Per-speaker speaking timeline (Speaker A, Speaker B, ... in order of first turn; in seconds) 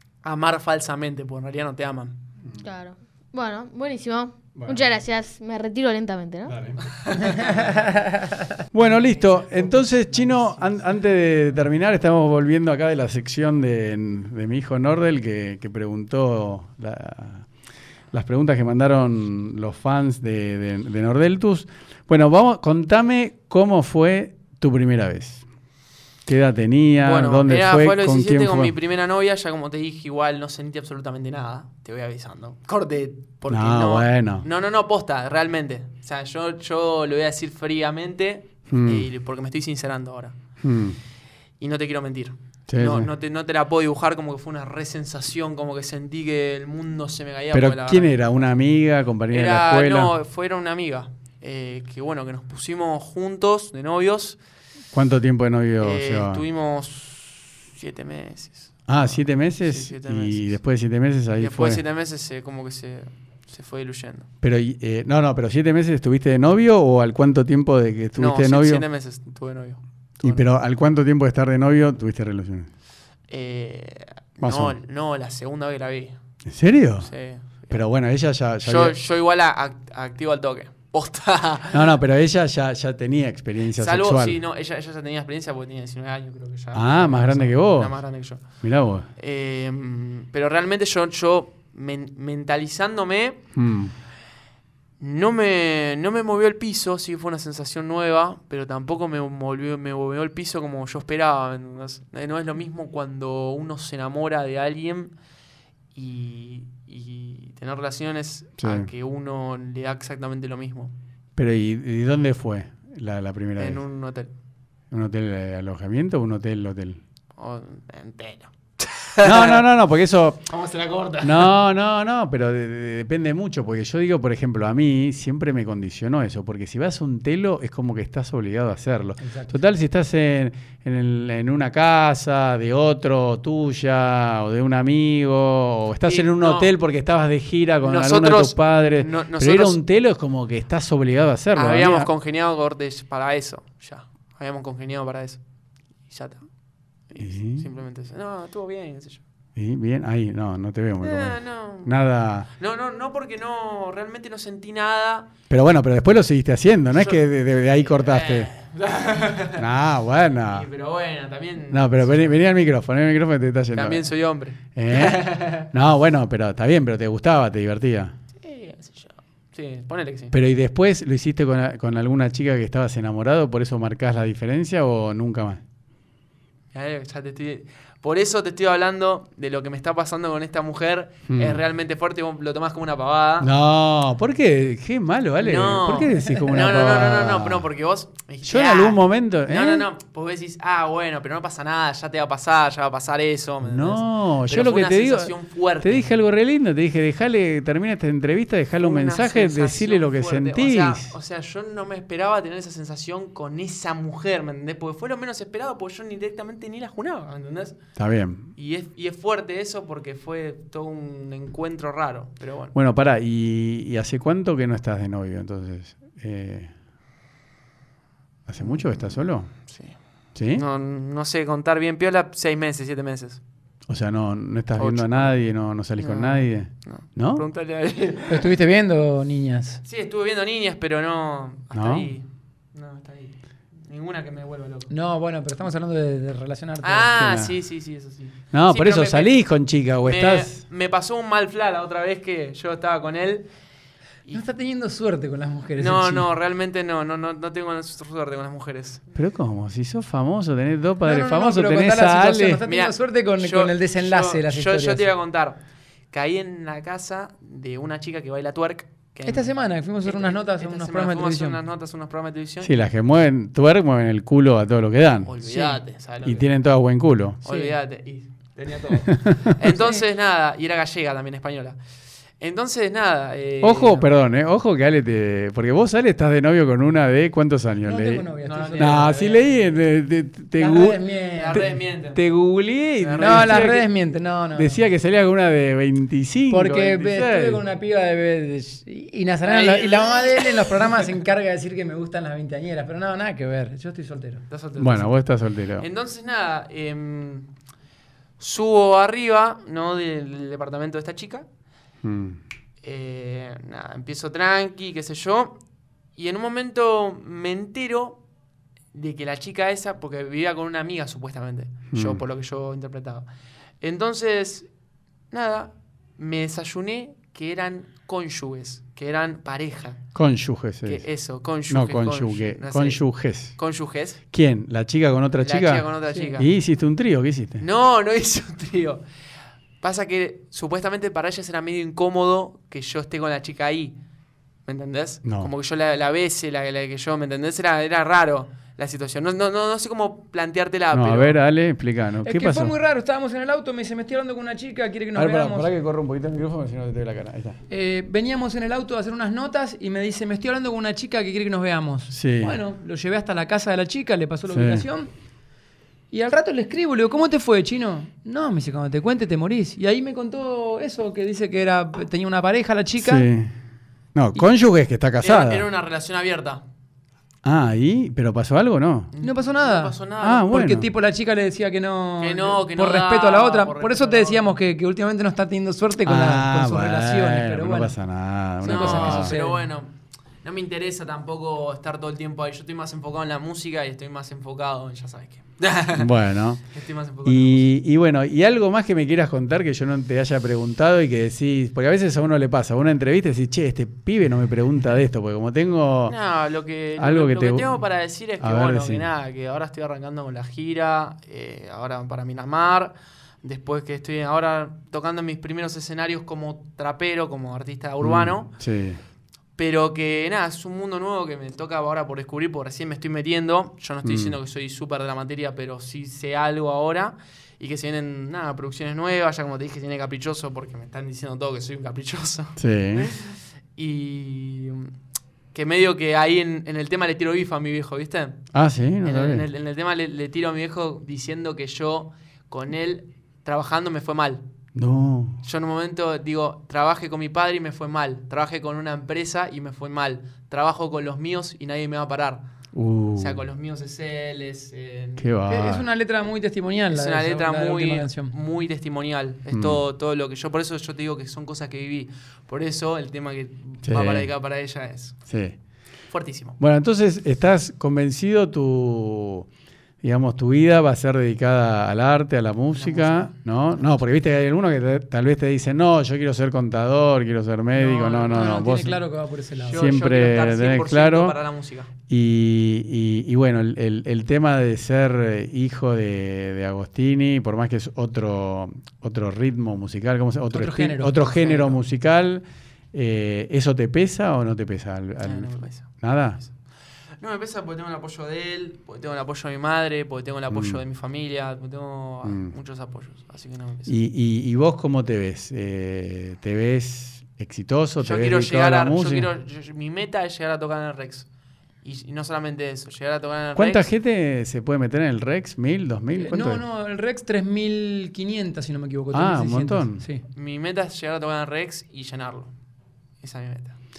Speaker A: 0.2-2.2, 7.1-7.7, 8.8-10.7, 27.0-40.4, 41.6-48.2, 49.3-54.4, 55.8-60.5, 61.4-64.3, 68.2-70.5, 73.3-76.2, 77.0-77.8, 78.6-81.9, 83.8-88.4, 89.2-93.4, 95.0-105.1, 106.0-110.9, 113.6-114.3, 117.4-119.7, 120.5-121.5, 136.1-136.7, 137.8-139.8, 141.6-145.4, 146.1-146.4, 147.1-149.2, 151.0-151.9, 152.6-155.3, 157.0-157.2, 157.8-159.7, 160.5-162.3, 163.7-165.7, 168.4-170.3, 176.7-183.5, 185.4-196.2, 198.8-207.8, 208.6-212.7, 219.7-220.0, 220.5-223.4, 224.8-225.4, 226.0-228.5, 229.8-234.9, 236.8-239.3, 240.0-243.5, 245.8-249.0, 252.7-255.6, 256.1-259.5, 260.0-262.7, 265.2-266.5, 267.4-271.8, 272.4-274.1, 278.4-279.4, 281.4-282.2, 283.0-283.7, 289.5-290.9, 294.5-295.2, 295.8-297.5, 298.4-301.5, 302.8-305.6, 306.2-308.2, 308.9-313.3, 313.8-314.7, 315.3-320.0, 320.9-323.0, 323.6-324.2, 325.4-326.5, 327.6-329.0, 329.8-334.0, 334.7-341.4, 365.2-366.6, 369.1-370.7, 372.2-374.5, 378.6-386.1, 386.7-387.7, 396.1-408.5, 409.6-424.9, 425.5-428.4, 429.0-434.4, 435.4-442.4, 443.2-445.3, 446.9-455.2, 456.1-456.6, 462.7-463.3, 469.6-471.9, 485.2-485.9, 487.2-493.9, 498.0-501.3, 501.8-503.9, 510.3-512.5, 513.2-513.8
Speaker B: 2.4-2.7, 4.5-4.9, 6.5-6.9, 8.7-17.5, 18.1-25.4, 26.3-28.7, 33.5-34.5, 38.7-39.1, 40.6-41.0, 42.7-43.1, 47.5-50.1, 54.9-56.4, 58.9-61.8, 64.4-68.8, 70.2-72.7, 74.4-74.8, 76.5-77.1, 77.7-79.0, 81.7-84.4, 86.7-88.0, 88.6-89.1, 93.5-93.9, 108.6-108.9, 111.4-113.8, 114.9-117.0, 119.2-120.5, 121.2-142.1, 147.2-147.7, 149.6-152.5, 155.5-158.5, 159.6-160.7, 161.7-164.1, 164.7-168.1, 170.3-175.6, 181.3-181.6, 183.4-187.7, 188.4-189.9, 193.6-201.1, 208.0-208.5, 212.7-216.7, 218.5-219.5, 220.3-220.6, 223.9-227.4, 231.7-232.1, 237.3-237.6, 238.5-240.6, 249.2-252.6, 262.6-265.4, 266.2-267.4, 269.1-269.5, 273.6-283.9, 284.5-287.6, 294.8-295.9, 302.0-302.4, 311.9-312.2, 320.1-321.1, 321.7-323.6, 324.3-327.6, 335.2-335.5, 340.9-342.8, 345.1-347.6, 352.1-352.6, 354.5-354.9, 363.0-363.5, 364.1-365.7, 367.4-369.1, 370.2-370.9, 376.1-379.3, 385.9-386.6, 387.2-396.2, 397.0-397.8, 398.4-399.1, 408.0-409.0, 414.0-414.4, 422.6-423.1, 428.5-429.5, 434.8-435.4, 442.7-443.4, 445.2-445.9, 449.5-449.8, 453.8-454.3, 455.3-455.6, 456.6-459.5, 460.0-469.0, 469.7-471.4, 472.1-486.4, 490.5-490.8, 492.2-492.5, 493.9-499.3, 503.6-506.6, 509.1-510.0
Speaker C: 2.6-6.6
Speaker D: 129.2-129.6, 228.3-229.8, 234.9-237.4, 244.3-246.3, 251.0-255.1, 259.3-261.6, 267.5-267.7, 277.8-279.2, 280.6-281.7, 283.2-284.8, 286.5-294.4, 342.2-345.7, 347.7-355.1, 356.1-363.3, 369.2-378.0, 378.6-379.6, 445.5-448.4, 467.7-469.9, 480.5-481.8, 506.2-510.2